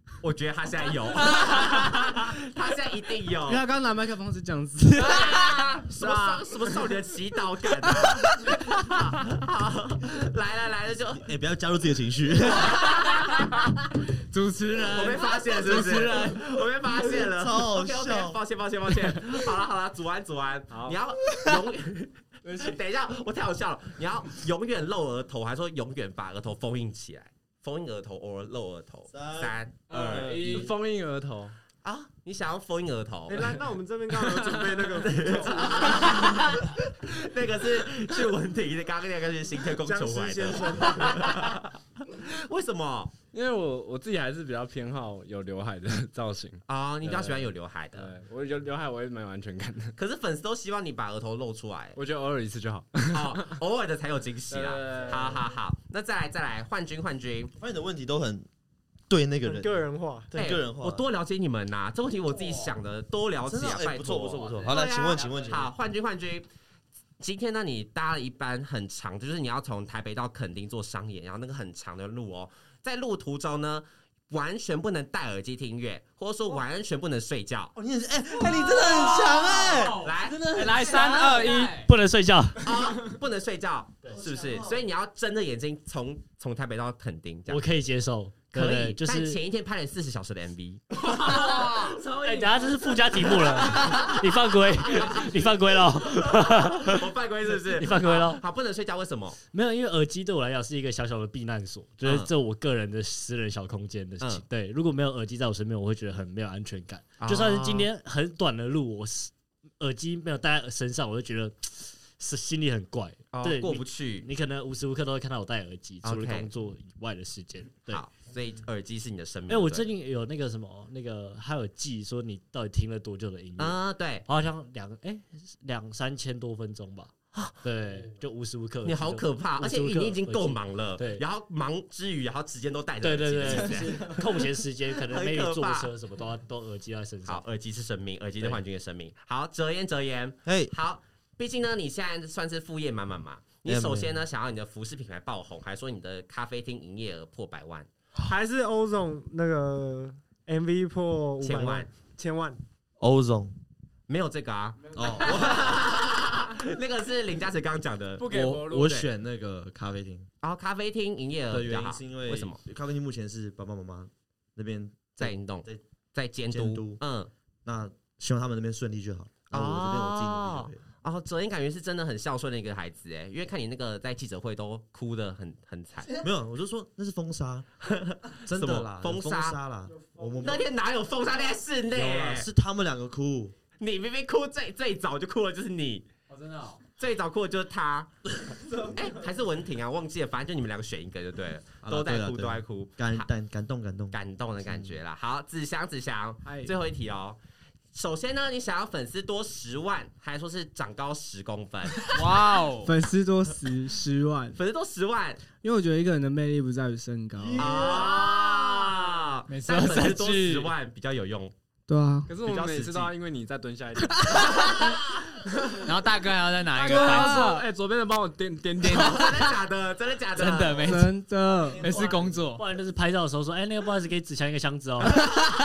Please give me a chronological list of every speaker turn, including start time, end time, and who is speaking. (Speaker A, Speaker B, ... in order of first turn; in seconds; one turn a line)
Speaker A: 0.2-3.6
Speaker B: 1.2-1.9
Speaker C: 3.4-5.6
Speaker A: 5.0-11.3
Speaker B: 6.0-6.5
Speaker D: 11.1-12.9
Speaker A: 12.5-13.5
Speaker B: 13.3-16.4
Speaker A: 14.9-30.7
Speaker D: 17.2-18.4
Speaker E: 20.7-21.0
Speaker D: 29.1-29.5
Speaker E: 29.9-31.6
Speaker A: 31.8-33.5
Speaker F: 33.3-36.4
Speaker E: 34.3-34.6
Speaker A: 34.5-43.1
Speaker F: 39.8-41.6
Speaker E: 43.3-49.9
Speaker A: 46.7-48.1
Speaker A: 50.0-52.0
Speaker E: 51.9-53.6
Speaker A: 53.1-57.5
Speaker E: 54.5-55.5
Speaker D: 57.5-58.5
Speaker D: 59.1-61.0
Speaker F: 59.4-60.3
Speaker A: 60.3-66.5
Speaker D: 63.4-65.7
Speaker A: 67.2-77.7
Speaker D: 77.8-80.1
Speaker B: 78.4-81.9
Speaker A: 80.0-80.4
Speaker G: 80.5-82.7
Speaker C: 80.5-81.6
Speaker A: 82.6-87.6
Speaker D: 84.1-84.8
Speaker G: 87.5-89.4
Speaker A: 88.5-92.0
Speaker B: 91.3-91.8
Speaker G: 92.0-98.4
Speaker A: 94.9-95.2
Speaker A: 96.0-99.4
Speaker G: 99.5-118.0
Speaker A: 102.0-102.3
Speaker A: 107.2-107.9
Speaker A: 113.3-114.3
Speaker A: 116.0-116.5
Speaker A: 117.9-119.9
Speaker G: 119.5-131.2
Speaker A: 123.6-124.2
Speaker A: 127.3-127.6
Speaker A: 128.8-134.4
Speaker G: 133.0-137.4
Speaker A: 135.0-135.9
Speaker A: 137.2-147.9
Speaker D: 140.4-140.7
Speaker D: 143.7-144.2
Speaker F: 148.2-152.6
Speaker A: 151.4-151.9
Speaker D: 153.0-153.6
Speaker A: 154.1-158.7
Speaker D: 154.9-156.0
Speaker E: 158.2-159.1
Speaker D: 158.3-160.3
Speaker A: 160.4-162.6
Speaker D: 161.5-165.8
Speaker A: 165.2-167.3
Speaker D: 166.5-167.0
Speaker D: 167.6-170.8
Speaker A: 169.5-176.2
Speaker D: 176.1-177.7
Speaker A: 177.8-179.6
Speaker D: 178.4-180.7
Speaker A: 180.4-182.5
Speaker D: 181.9-183.6
Speaker A: 183.8-186.1
Speaker B: 186.3-186.8
Speaker A: 186.8-188.1
Speaker A: 188.6-193.3
Speaker D: 191.8-195.0
Speaker A: 194.1-197.4
Speaker C: 196.4-196.7
Speaker A: 197.9-202.2
Speaker B: 202.0-202.9
Speaker C: 202.8-204.6
Speaker A: 204.5-205.4
Speaker C: 205.6-207.8
Speaker A: 207.6-211.5
Speaker D: 207.7-208.0
Speaker B: 209.5-210.7
Speaker C: 211.9-212.3
Speaker E: 212.3-214.7
Speaker A: 212.4-213.1
Speaker C: 214.2-214.4
Speaker A: 214.5-215.0
Speaker B: 214.5-215.0
Speaker E: 215.6-215.8
Speaker B: 215.7-217.6
Speaker C: 216.8-217.5
Speaker E: 216.9-219.4
Speaker B: 218.8-219.5
Speaker A: 218.9-220.9
Speaker B: 220.3-221.2
Speaker C: 220.7-221.9
Speaker B: 221.7-222.6
Speaker D: 221.7-222.4
Speaker G: 222.6-225.2